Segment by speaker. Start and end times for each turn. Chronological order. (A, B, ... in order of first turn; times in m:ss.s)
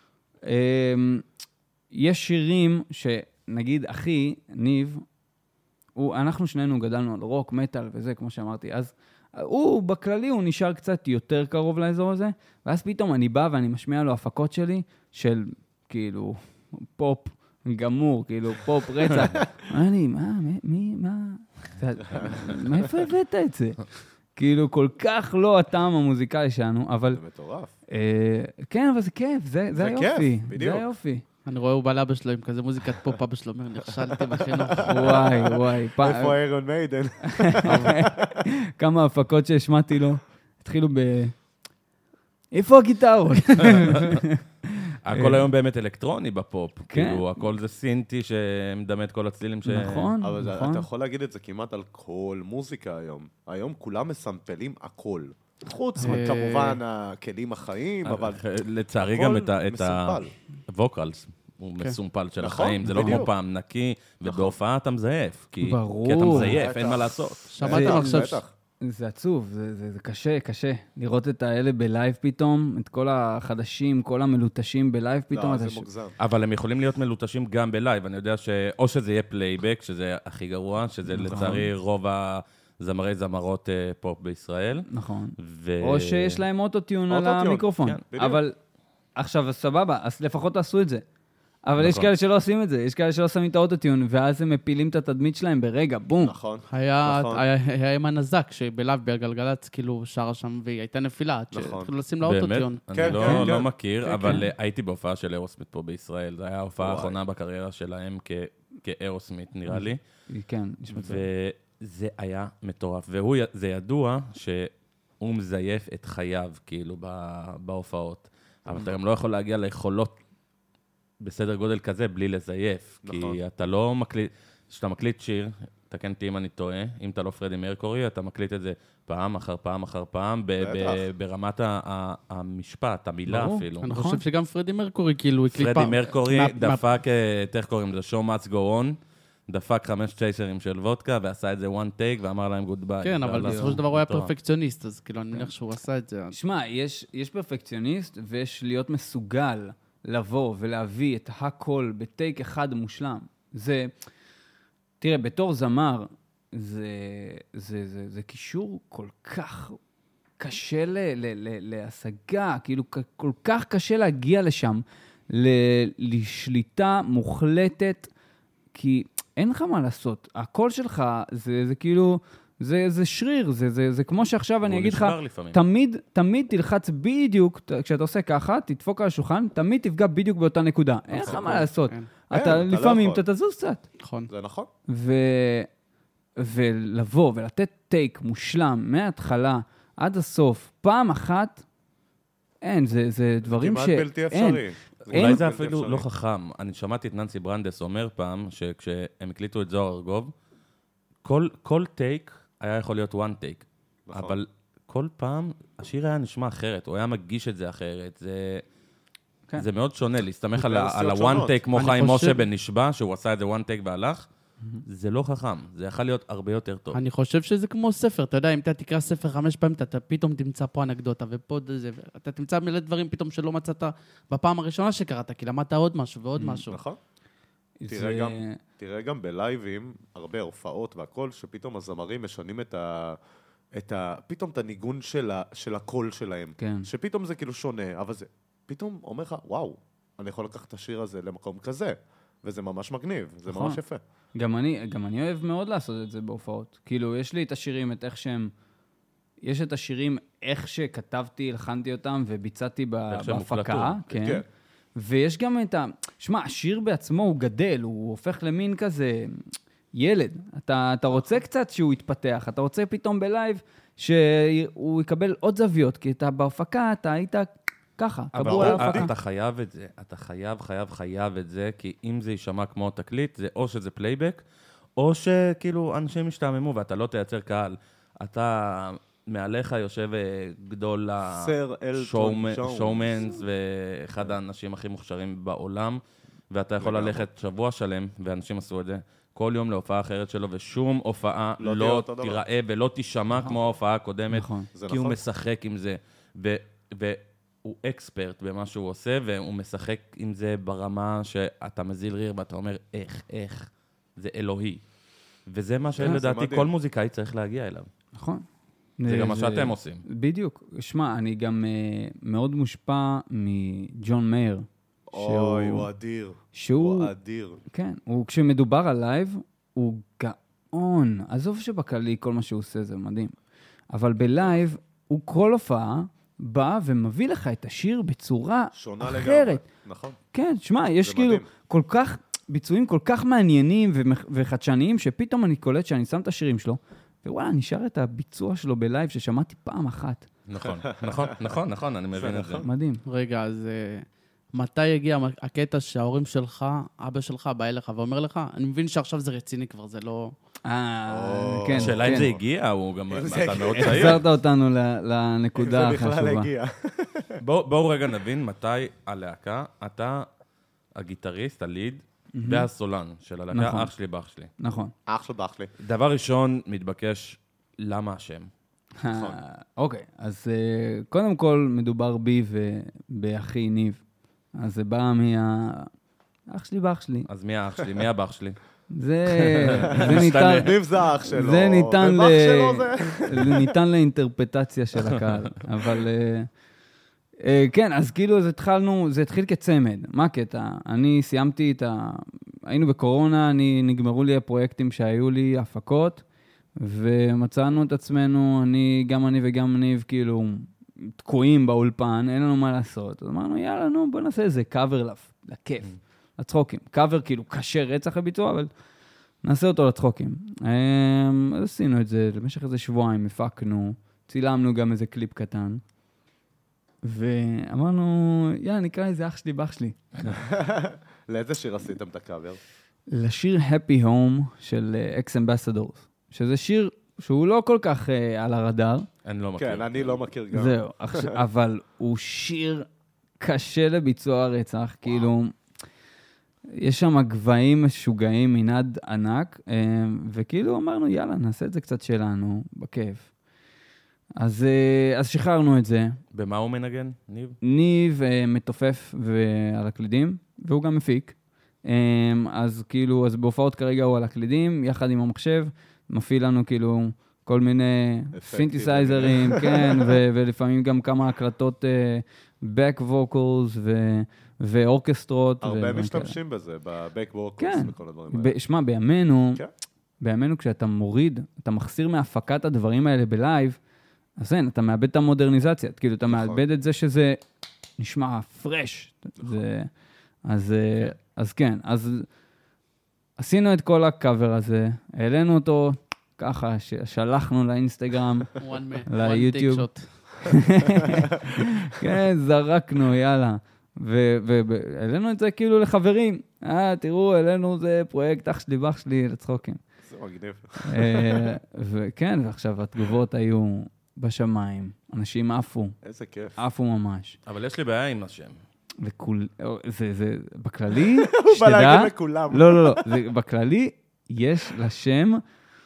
0:00.4-0:01.2 A
0:01.9-0:05.0 A
0:06.0-0:23.8 A
0:24.3-0:27.2 A
0:27.1-0:27.7 B
0:27.9-0:31.2 A
0:29.8-0:30.8 B
0:31.4-0:35.2 C
0:34.4-0:38.4 B
0:34.8-0:36.4 A
0:37.4-0:41.3 A
0:42.5-0:44.4 A
0:43.6-0:44.2 D
0:45.0-0:50.1 D
0:45.1-0:45.5 A
0:46.9-0:47.4 A
0:49.6-0:50.8 A
0:50.2-0:58.4 B
0:56.0-0:56.8 C
0:58.0-1:07.5 D
0:59.0-1:00.3 B
1:02.4-1:03.3 B
1:02.9-1:03.2 A
1:04.2-1:04.6 B
1:05.6-1:06.6 A
1:06.2-1:08.5 B
1:07.5-1:08.4 C
1:07.6-1:15.9 A
1:15.3-1:16.1 B
1:16.2-1:24.9 D
1:21.1-1:21.7 A
1:24.9-1:28.6 A
1:25.4-1:26.4 D
1:27.1-1:28.4 B
1:29.2-1:31.0 A
1:31.6-1:36.3 A
1:31.8-1:32.1 D
1:36.2-1:37.4 B
1:36.7-1:43.2 C
1:41.5-1:41.9 B
1:42.2-1:50.0 D
1:42.9-1:43.7 B
1:44.0-1:44.4 C
1:44.2-1:44.5 A
1:46.8-1:47.2 B
1:49.7-1:51.2 A
1:50.9-2:00.2 D
2:01.2-2:13.9 D
2:03.0-2:03.4 B
2:10.6-2:11.0 B
2:13.2-2:14.2 A
2:13.8-2:16.8 C
2:15.5-2:19.0 D
2:19.5-2:24.3 D
2:23.0-2:26.3 C
2:23.4-2:23.8 A
2:26.3-2:33.9 A
2:35.0-2:39.8 A
2:40.4-2:48.1 A
2:48.7-3:03.8 A
2:54.6-2:55.6 D
3:01.2-3:02.1 C
3:01.2-3:01.5 B
3:02.3-3:03.2 B
3:04.0-3:04.3 C
3:04.3-3:04.7 B
3:04.9-3:05.7 A
3:06.4-3:11.6 A
3:12.6-3:15.4 A
3:13.4-3:16.0 B
3:15.1-3:20.3 D
3:21.2-3:28.6 D
3:24.1-3:24.4 B
3:29.6-3:34.3 D
3:30.6-3:31.6 B
3:31.7-3:32.4 C
3:34.8-3:37.0 D
3:36.9-3:46.8 C
3:46.4-3:46.6 A
3:46.7-3:47.0 B
3:47.8-3:48.6 A
3:47.9-3:53.2 B
3:53.7-4:04.0 B
3:56.6-3:56.9 A
4:03.5-4:03.8 A
4:04.4-4:08.5 A
4:09.4-4:14.4 A
4:13.1-4:14.0 D
4:14.1-4:14.4 B
4:15.0-4:19.4 A
4:19.9-4:29.1 A
4:28.4-4:29.1 B
4:28.4-4:34.4 D
4:35.0-5:04.8 D
4:41.3-4:43.3 B
4:46.8-4:47.2 B
4:51.6-4:52.4 B
4:54.3-4:54.7 A
4:54.7-4:55.2 B
5:05.5-5:07.9 D
5:05.9-5:06.7 B
5:08.1-5:08.4 A
5:09.0-5:15.9 A
5:09.1-5:10.0 D
5:15.1-5:17.6 B
5:16.5-5:17.1 A
5:17.7-5:23.3 A
5:23.9-5:29.6 A
5:28.7-5:30.2 B
5:30.3-5:40.3 A
5:31.0-5:31.5 B
5:40.5-5:42.6 D
5:40.6-5:41.6 B
5:42.1-5:42.7 B
5:42.6-5:43.0 A
5:43.0-5:50.3 C
5:50.6-5:52.3 A
5:51.1-5:52.4 B
5:51.8-5:54.2 D
5:53.1-5:54.2 B
5:53.8-5:56.5 A
5:55.6-5:57.4 B
5:57.4-6:00.3 D
6:01.0-6:04.5 D
6:02.3-6:02.7 A
6:03.5-6:03.9 A
6:04.6-6:04.9 A
6:05.1-6:05.7 B
6:05.8-6:08.5 D
6:09.0-6:14.0 A
6:09.1-6:09.4 B
6:14.6-6:15.9 A
6:16.5-6:17.3 A
6:17.3-6:18.6 D
6:18.9-6:20.7 A
6:19.3-6:20.8 D
6:19.9-6:23.7 B
6:21.3-6:26.5 A
6:27.4-6:36.2 A
6:36.8-6:48.7 A
6:49.4-6:55.8 A
6:57.0-7:00.0 A
7:00.3-7:02.6 B
7:03.1-7:09.1 A
7:09.2-7:10.2 D
7:09.6-7:11.4 B
7:10.5-7:12.9 A
7:13.4-7:15.5 A
7:16.7-7:23.3 A
7:24.4-7:26.2 A
7:26.3-7:27.6 D
7:27.6-7:46.4 A
7:38.3-7:40.2 B
7:45.6-7:48.5 B
7:47.6-7:49.6 A
7:50.2-7:53.8 A
7:54.4-7:57.4 A
7:56.3-7:56.6 B
7:58.0-7:59.9 A
8:00.4-8:02.3 A
8:03.4-8:08.5 A
8:08.6-8:10.0 C
8:09.1-8:09.9 A
8:10.4-8:19.8 A
8:20.0-8:21.5 B
8:20.8-8:25.9 A
8:26.0-8:26.5 B
8:26.6-8:27.4 A
8:27.4-8:28.5 D
8:29.0-8:35.4 A
8:31.0-8:33.2 B